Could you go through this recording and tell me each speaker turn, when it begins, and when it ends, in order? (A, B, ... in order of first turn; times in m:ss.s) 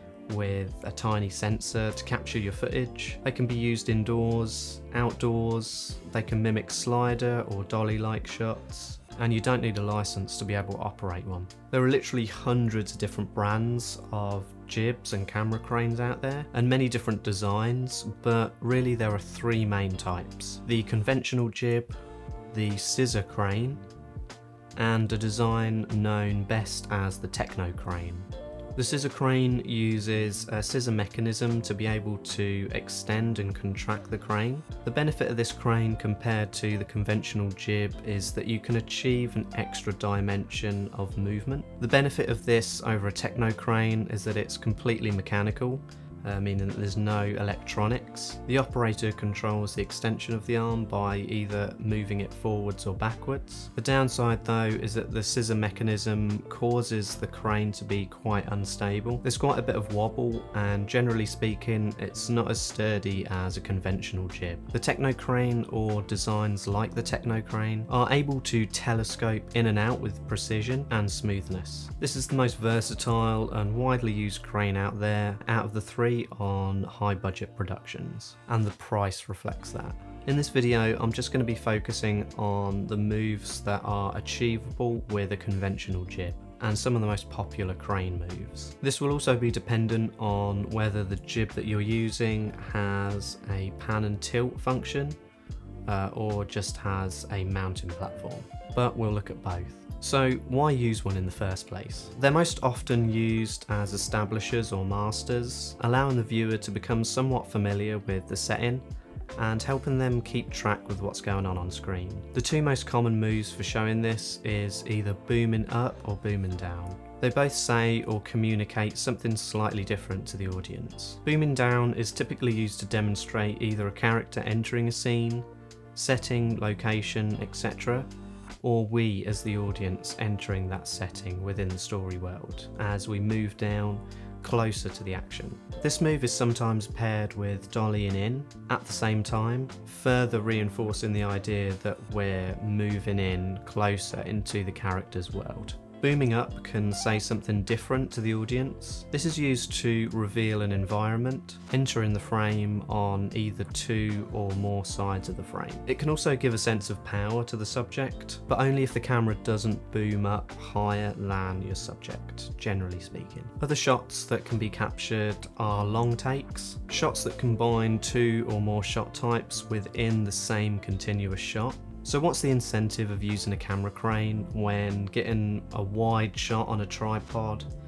0:00.3-0:22.0 A
0:22.5-0:23.8 A
0:24.8-1:35.2 A
1:35.9-1:48.8 A
1:49.4-2:08.1 A
2:08.6-2:57.7 A